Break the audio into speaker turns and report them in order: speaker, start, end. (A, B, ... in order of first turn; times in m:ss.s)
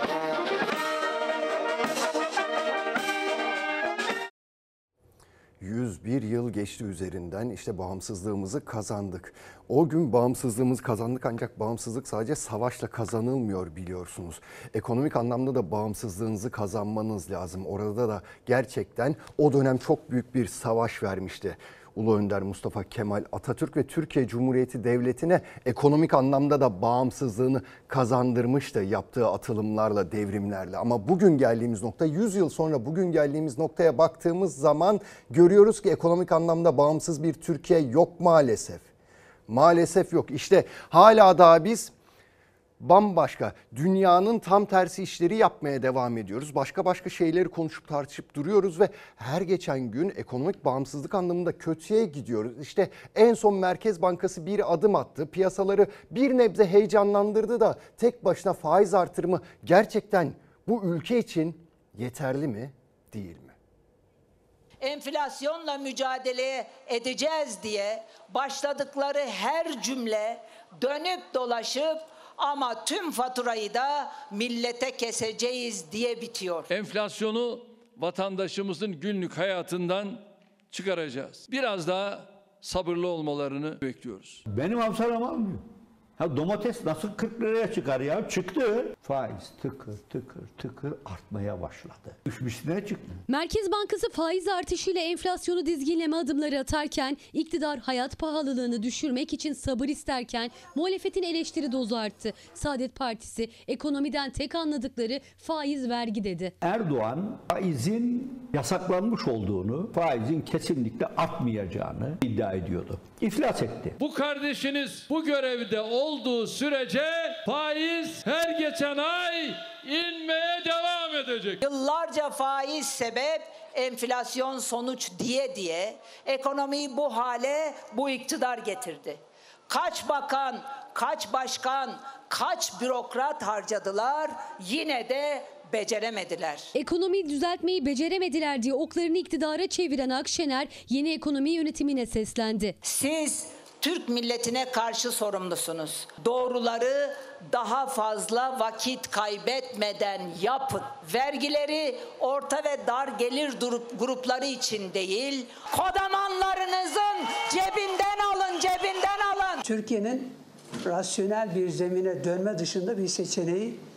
0:05.6-0:38.9 A
0:39.5-0:41.9 A
0:42.8-1:03.6 A
1:04.8-1:16.7 B
1:16.7-1:24.4 C
1:24.5-1:25.6 D
1:26.2-1:33.2 D
1:33.3-1:46.5 E
1:46.6-1:54.0 D
1:54.0-2:01.6 C
2:01.6-2:16.7 B
2:16.8-2:22.8 E
2:22.8-2:39.6 B
2:39.6-2:43.8 F